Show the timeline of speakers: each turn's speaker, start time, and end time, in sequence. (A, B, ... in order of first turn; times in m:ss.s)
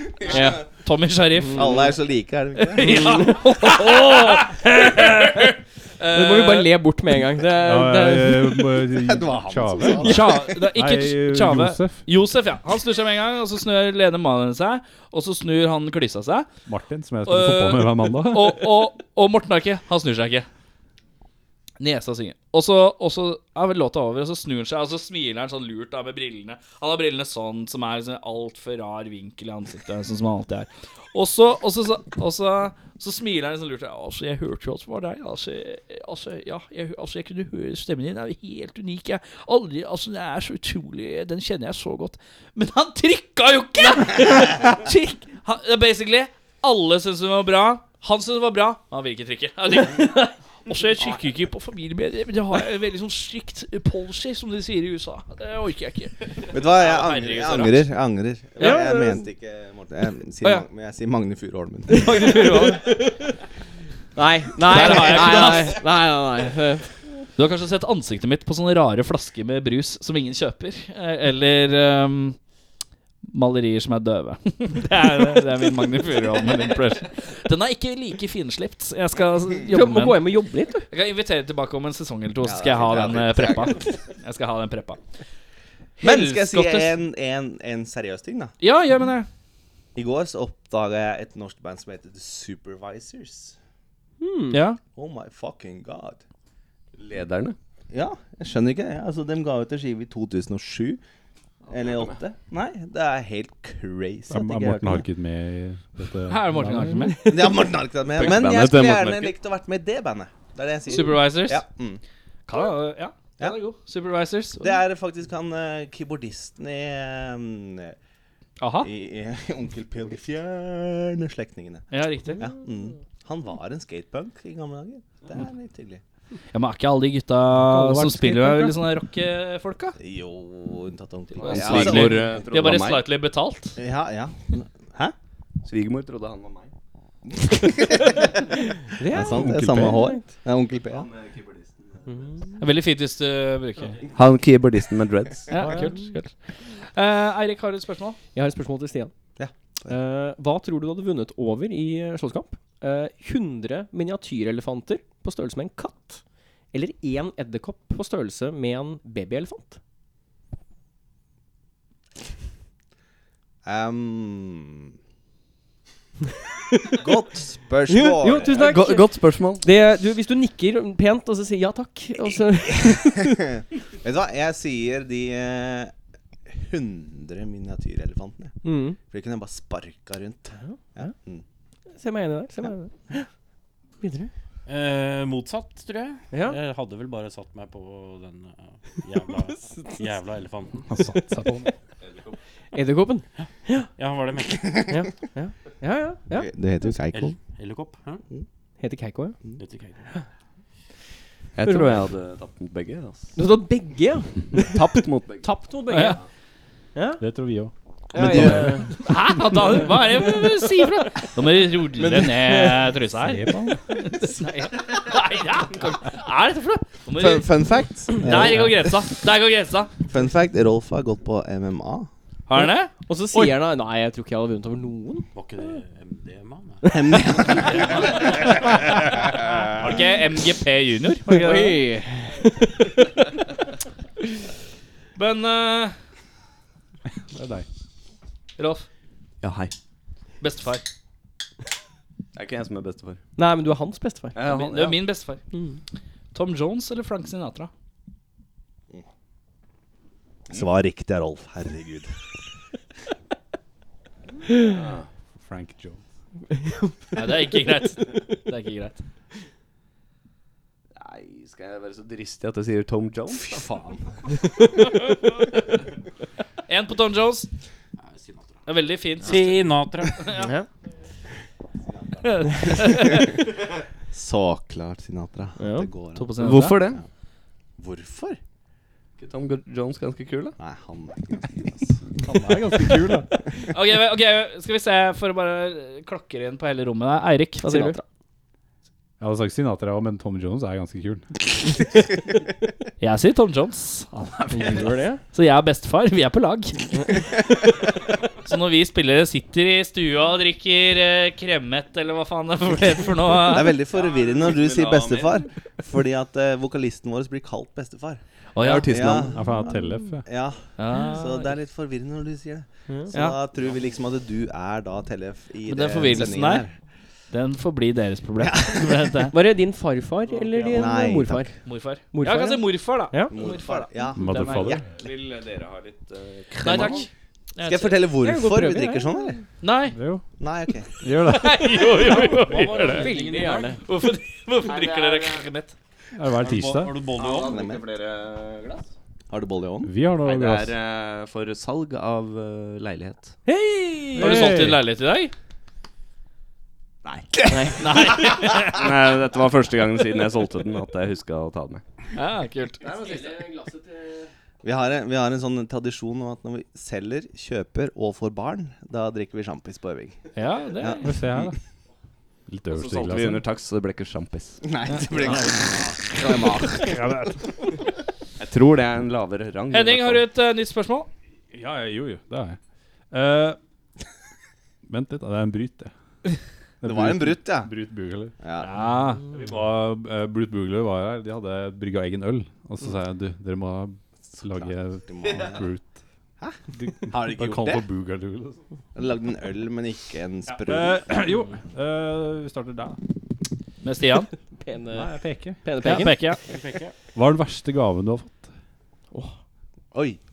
0:00.3-0:01.7 A
0:00.3-0:00.6 B
0:01.4-0:01.9 B
0:01.5-0:03.3 C
0:02.7-0:06.7 A
0:02.8-0:04.4 B
0:06.1-0:08.8 B
0:07.6-0:12.0 D
0:08.9-0:10.4 C
0:10.0-0:16.5 A
0:16.6-0:18.9 D
0:17.2-0:20.5 A
0:21.8-0:57.9 A
0:56.5-1:02.8 C
0:58.6-0:59.3 B
1:01.9-1:03.3 B
1:04.2-1:06.9 B
1:04.6-1:05.8 A
1:04.7-1:05.2 C
1:07.4-1:12.4 A
1:13.3-1:20.3 A
1:19.6-1:20.9 B
1:20.9-1:25.0 A
1:22.4-1:23.9 C
1:26.0-1:26.9 A
1:26.0-1:28.5 C
1:28.6-1:29.3 A
1:29.9-1:33.6 C
1:34.2-1:34.6 B
1:34.5-1:34.8 A
1:34.9-1:36.2 C
1:37.0-1:37.6 E
1:37.9-1:41.0 C
1:41.7-1:45.0 C
1:41.8-1:42.1 E
1:44.3-1:47.2 D
1:46.3-1:47.3 A
1:47.2-1:47.5 B
1:47.2-1:52.0 C
1:48.1-1:49.4 E
1:50.9-1:51.6 A
1:52.5-1:54.8 A
1:53.4-1:53.6 C
1:54.6-1:58.0 C
1:58.6-1:58.9 A
1:58.8-2:01.8 C
2:01.9-2:02.4 A
2:02.4-2:06.0 C
2:06.5-2:10.0 A
2:07.5-2:08.8 D
2:10.0-2:12.4 C
2:11.4-2:13.8 A
2:11.4-2:13.1 E
2:13.8-2:15.1 C
2:15.6-2:16.7 E
2:17.4-2:18.2 C
2:19.0-2:20.2 B
2:19.0-2:21.1 C
2:19.4-2:19.9 E
2:20.9-2:22.2 E
2:22.1-2:22.3 B
2:22.6-2:24.0 A
2:24.1-2:25.6 E
2:25.5-2:26.3 A
2:25.6-2:25.9 D
2:26.9-2:28.2 A
2:28.3-2:29.1 B
2:29.4-2:30.0 C
2:29.9-2:36.2 B
2:36.7-2:39.8 B
2:43.6-2:44.9 C
2:46.7-2:47.0 B
2:47.0-2:48.8 C
2:47.9-2:53.4 B
2:48.5-2:49.7 E
2:53.4-2:55.9 C
2:56.5-3:01.4 C
2:58.6-2:59.0 B
3:00.6-3:01.1 B
3:01.9-3:03.3 B
3:04.0-3:04.3 B
3:04.6-3:11.0 F
3:06.3-3:06.6 B
3:09.7-3:10.0 B
3:10.9-3:11.7 D
3:12.7-3:13.9 B
3:13.4-3:15.0 F
3:14.7-3:16.5 B
3:16.3-3:17.4 C
3:17.1-3:18.2 F
3:18.8-3:19.4 B
3:19.6-3:20.1 F
3:21.6-3:23.4 E
3:21.6-3:22.0 B
3:23.4-3:26.2 B
3:24.6-3:25.6 E
3:25.9-3:26.2 A
3:26.9-3:27.2 B
3:27.2-3:28.9 D
3:28.1-3:29.0 B
3:28.2-3:28.5 C
3:28.9-3:39.9 A
3:32.0-3:33.0 B
3:33.2-3:33.8 D
3:37.1-3:39.0 C
3:40.1-3:42.1 C
3:42.5-3:43.5 A
3:43.0-3:45.3 B
3:45.3-3:47.0 F
3:46.8-3:48.0 C
3:49.8-3:51.8 A
3:51.3-3:53.1 B
3:55.2-3:55.9 A
3:57.3-3:57.6 D
3:58.6-3:58.8 A
3:59.4-3:59.7 E
4:00.4-4:00.8 A
4:02.3-4:03.2 E
4:03.4-4:04.4 B
4:04.3-4:05.0 E
4:04.4-4:05.4 A
4:06.3-4:07.7 A
4:10.5-4:12.1 C
4:14.6-4:15.0 E
4:15.4-4:16.0 D
4:16.5-4:16.9 B
4:17.1-4:19.0 A
4:21.0-4:23.6 E
4:23.3-4:24.2 C
4:26.7-4:27.5 A
4:28.0-4:28.7 F
4:28.6-4:29.5 A
4:29.2-4:30.5 F
4:30.1-4:30.5 A
4:30.4-4:30.7 B
4:31.9-4:33.5 C
4:32.2-4:33.3 A
4:34.1-4:37.0 C
4:35.6-4:35.9 B
4:36.2-4:36.8 A
4:36.4-4:37.0 E
4:37.8-4:38.4 C
4:39.2-4:40.6 E
4:40.6-4:42.0 C
4:42.2-4:43.3 D
4:43.7-4:48.0 A
4:47.6-4:48.0 B
4:49.2-4:51.3 D
4:53.0-4:57.0 A
4:54.5-4:55.2 B
4:58.4-5:03.8 A
5:03.4-5:08.2 C
5:03.9-5:05.4 E
5:08.6-5:08.9 A
5:08.6-5:09.4 E
5:08.8-5:09.6 C
5:09.1-5:10.2 D
5:10.2-5:16.7 C
5:10.8-5:11.6 A
5:15.7-5:16.7 A
5:17.3-5:19.3 A
5:18.4-5:19.3 C
5:19.3-5:23.3 B
5:20.6-5:21.5 C
5:21.6-5:24.8 A
5:23.3-5:24.9 C
5:24.2-5:24.8 D
5:24.9-5:27.0 E
5:26.6-5:28.0 A
5:26.6-5:27.0 C
5:27.6-5:29.4 C
5:28.2-5:29.4 B
5:29.6-5:30.0 A
5:29.9-5:30.2 D
5:30.4-5:31.0 C
5:31.0-5:31.7 D
5:31.2-5:33.1 A
5:32.0-5:33.8 F
5:32.5-5:33.8 B
5:33.8-5:35.7 A
5:34.6-5:35.5 E
5:36.1-5:36.9 D
5:36.3-5:37.6 F
5:37.2-5:38.8 E
5:37.4-5:37.8 C
5:39.3-5:40.0 C
5:39.8-5:40.7 D
5:40.2-5:43.3 E
5:43.4-5:44.5 B
5:44.2-5:44.8 D
5:44.2-5:45.3 A
5:47.0-5:47.4 E
5:47.5-5:48.1 B
5:47.8-5:48.8 A
5:48.5-5:51.8 E
5:52.1-5:52.8 A
5:53.0-5:53.9 B
5:54.6-6:00.2 C
6:00.3-6:01.1 A
6:00.8-6:01.5 C
6:01.0-6:01.5 D
6:02.5-6:03.4 D
6:02.7-6:04.6 E
6:04.6-6:07.0 C
6:04.9-6:07.8 A
6:08.4-6:10.2 E
6:09.7-6:11.1 A
6:11.5-6:12.6 D
6:13.1-6:13.6 D
6:14.9-6:15.9 D
6:16.8-6:18.3 D
6:16.8-6:17.7 C
6:18.4-6:18.7 C
6:18.6-6:19.2 A
6:19.3-6:25.9 D
6:24.4-6:25.7 C
6:26.4-6:27.8 C
6:26.7-6:28.6 D
6:28.9-6:31.3 C
6:30.5-6:33.0 D
6:33.8-6:34.3 A
6:34.6-6:36.4 B
6:34.9-6:35.6 D
6:35.8-6:36.4 A
6:36.5-6:36.9 F
6:37.1-6:38.5 D
6:39.9-6:40.2 C